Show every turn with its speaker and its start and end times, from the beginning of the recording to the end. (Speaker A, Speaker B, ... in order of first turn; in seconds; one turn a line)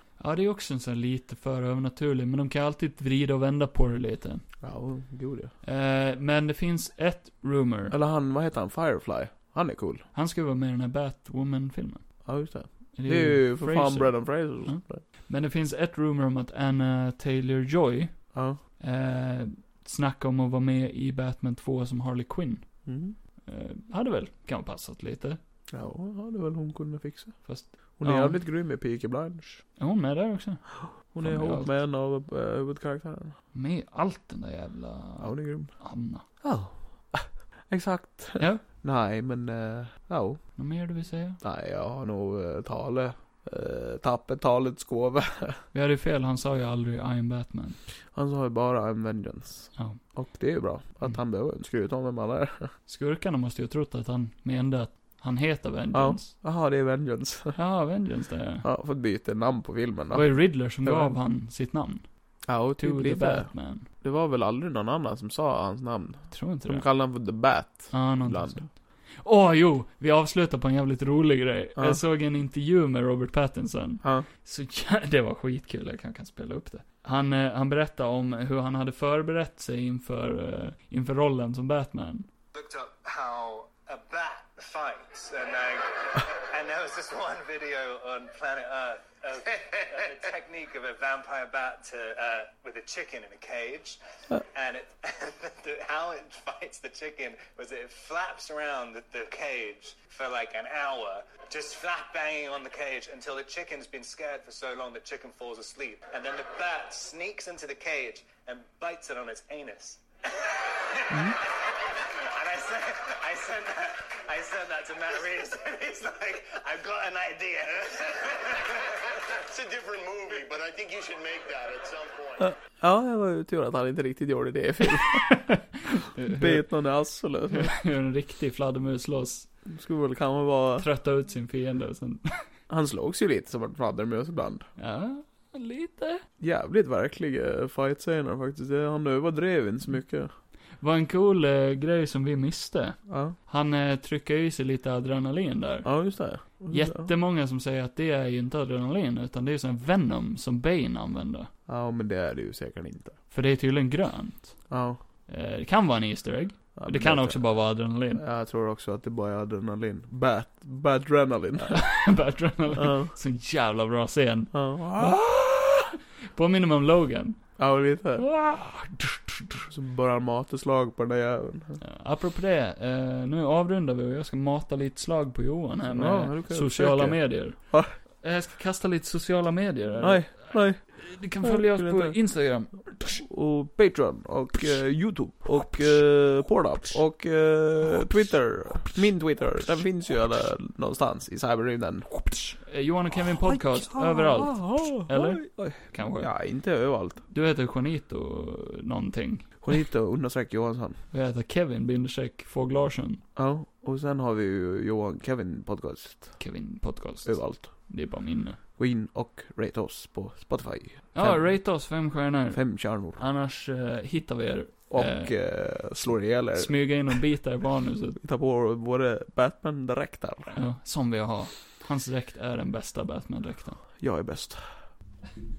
Speaker A: 0.2-4.5
Speaker B: 4.6-5.5
Speaker A: 5.6-7.9
Speaker B: 7.9-10.0
Speaker A: 10.1-12.2
Speaker B: 12.2-15.0
Speaker A: 12.9-25.4
Speaker B: 18.3-18.6
Speaker B: 22.9-23.1
Speaker B: 25.7-29.6
Speaker A: 27.4-28.4
Speaker A: 29.8-31.7
Speaker B: 30.9-33.4
Speaker A: 33.5-36.2
Speaker B: 35.2-40.4
Speaker A: 38.4-38.6
Speaker A: 40.5-41.4
Speaker B: 41.4-45.6
Speaker A: 45.7-47.8
Speaker B: 48.1-52.7
Speaker A: 49.7-50.0
Speaker A: 52.9-56.3
Speaker B: 55.9-57.6
Speaker A: 57.5-58.6
Speaker B: 58.6-61.1
Speaker A: 60.1-62.0
Speaker B: 62.5-68.7
Speaker A: 62.8-63.9
Speaker A: 66.3-66.9
Speaker A: 67.9-82.3
Speaker C: 82.5-118.9
Speaker D: 119.1-122.5
Speaker B: 122.4-125.4
Speaker A: 125.3-126.7
Speaker B: 126.3-127.8
Speaker A: 127.5-129.5
Speaker B: 129.7-130.8
Speaker A: 130.8-132.4
Speaker B: 132.7-134.7
Speaker A: 134.8-136.2
Speaker B: 136.4-140.3
Speaker A: 140.8-151.5
Speaker B: 143.1-143.3
Speaker B: 145.8-147.1
Speaker B: 151.7-153.2
Speaker A: 153.3-154.7
Speaker B: 154.7-155.0
Speaker A: 155.3-158.2
Speaker B: 156.8-157.5
Speaker B: 158.1-162.0
Speaker A: 161.6-167.6
Speaker B: 162.7-163.1
Speaker B: 164.5-165.2
Speaker B: 167.6-168.3
Speaker A: 168.2-169.6
Speaker B: 169.7-171.8
Speaker A: 171.8-183.3
Speaker B: 175.9-177.9
Speaker B: 180.0-192.5
Speaker A: 185.6-185.8
Speaker A: 187.8-188.1
Speaker A: 188.7-189.0
Speaker A: 192.6-196.3
Speaker B: 193.4-197.2
Speaker A: 197.3-199.8
Speaker B: 199.6-201.0
Speaker A: 201.1-203.2
Speaker B: 203.3-206.4
Speaker A: 206.4-208.6
Speaker B: 207.2-207.9
Speaker B: 208.8-213.2
Speaker A: 211.1-215.3
Speaker B: 214.9-217.2
Speaker A: 216.5-218.2
Speaker B: 218.2-220.6
Speaker A: 220.5-223.8
Speaker B: 224.0-224.7